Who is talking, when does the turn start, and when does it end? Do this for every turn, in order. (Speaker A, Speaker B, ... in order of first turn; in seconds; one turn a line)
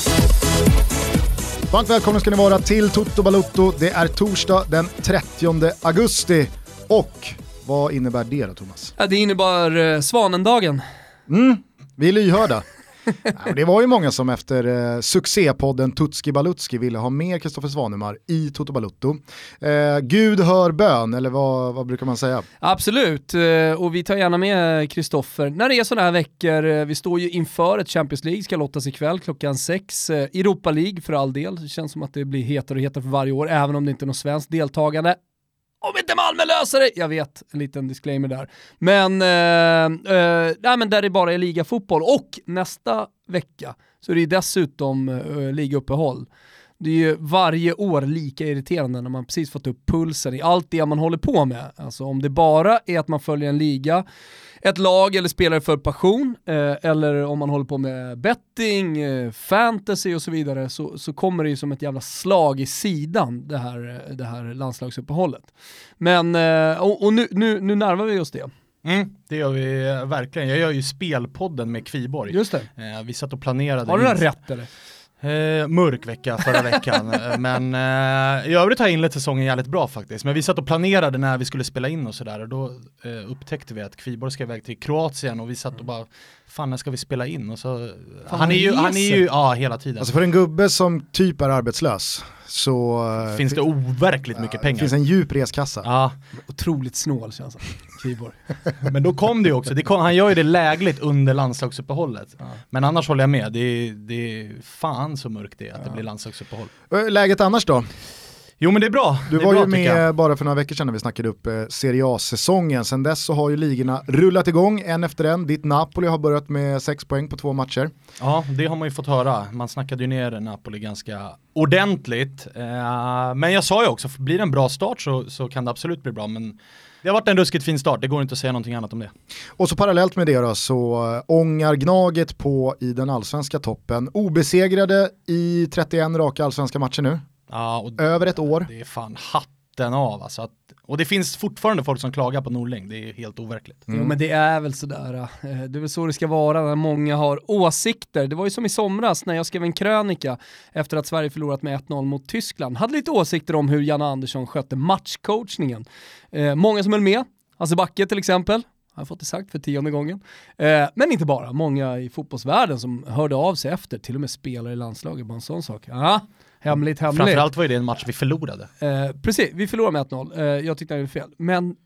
Speaker A: 1.7-8.9
Speaker B: 9.0-10.8
Speaker A: 11.3-12.6
Speaker A: 13.3-22.4
Speaker B: 22.6-35.2
Speaker B: 35.8-46.3
Speaker B: 46.8-54.0
Speaker B: 54.6-68.5
Speaker C: 68.8-74.2
Speaker B: 72.3-72.7
Speaker B: 73.9-74.7
Speaker C: 75.2-90.1
Speaker B: 88.3-89.2
Speaker A: 90.0-93.6
Speaker C: 93.3-94.9
Speaker A: 94.3-95.9
Speaker C: 95.8-96.2
Speaker B: 96.5-98.4
Speaker C: 98.9-106.7
Speaker A: 106.9-107.9
Speaker C: 108.6-110.0
Speaker A: 109.3-117.9
Speaker C: 118.2-129.1
Speaker A: 129.6-137.2
Speaker C: 137.5-143.9
Speaker A: 138.0-138.7
Speaker A: 143.9-144.1
Speaker B: 143.9-167.4
Speaker C: 167.1-168.7
Speaker B: 168.8-171.8